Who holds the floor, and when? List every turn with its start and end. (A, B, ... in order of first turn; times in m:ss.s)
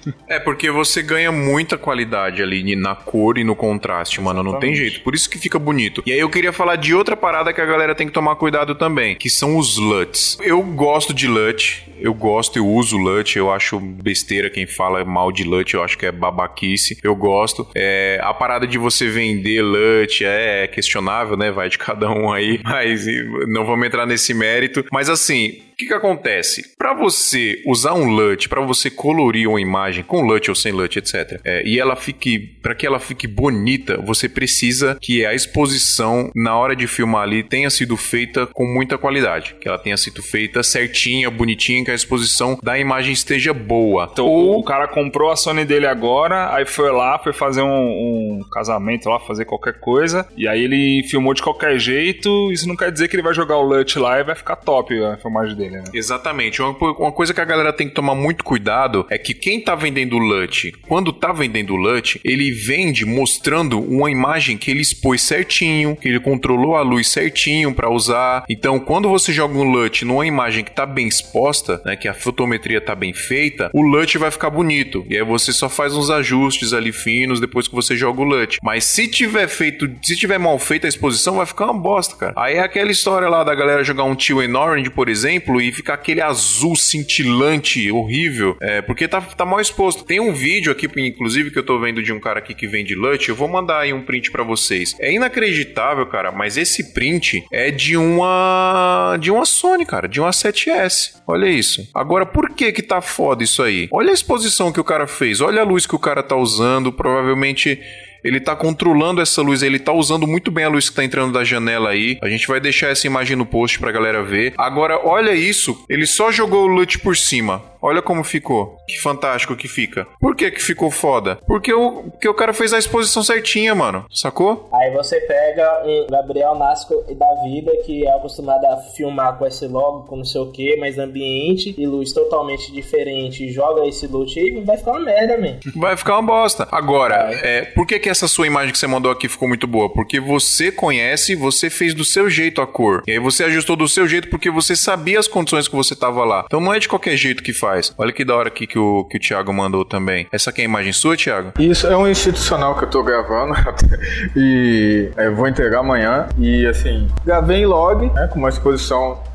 0:00.3-0:44.7 A
0:04.1-0:05.0 B
0:44.2-0:55.9 B
0:55.9-2:04.7 A
2:04.7-2:15.6 C
2:15.7-2:31.6 A
2:17.1-2:17.4 C
2:31.6-2:39.2 D